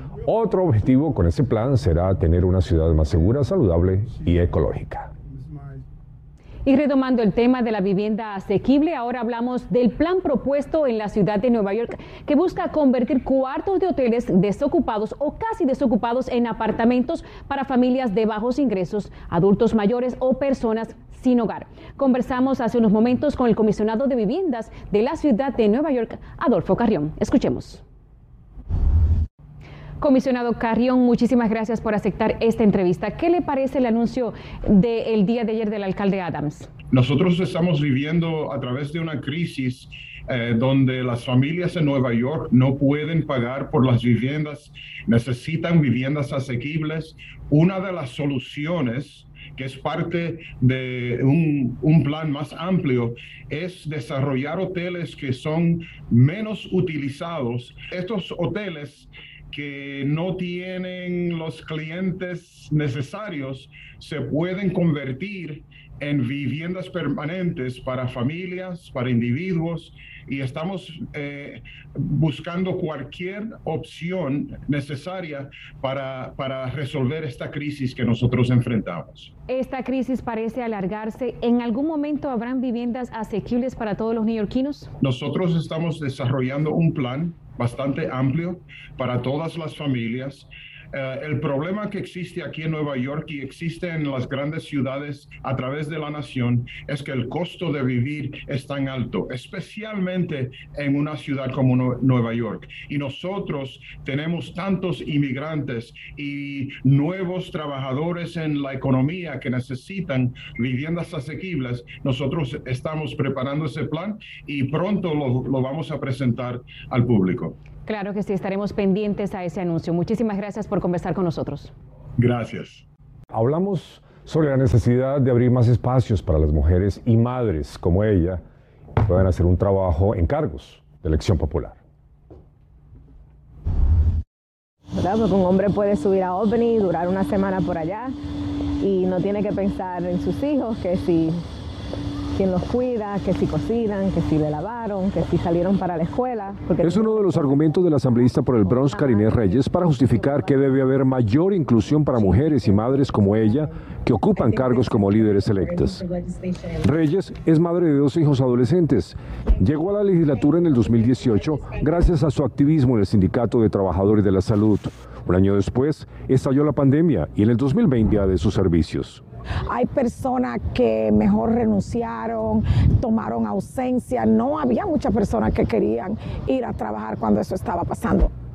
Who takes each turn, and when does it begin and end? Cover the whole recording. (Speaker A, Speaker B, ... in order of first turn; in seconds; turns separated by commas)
Speaker A: 0.2-5.1, Speaker B: 6.7-27.8, Speaker B: 30.0-36.7, Speaker C: 36.9-79.3, Speaker B: 79.5-84.9, Speaker C: 85.0-117.5, Speaker B: 117.9-121.7, Speaker C: 122.2-122.8, Speaker A: 123.3-128.4, Speaker A: 129.0-131.8, Speaker D: 135.0-138.1, Speaker D: 138.8-141.4, Speaker D: 142.3-147.5, Speaker A: 146.8-156.0, Speaker A: 156.8-169.2, Speaker E: 169.7-178.3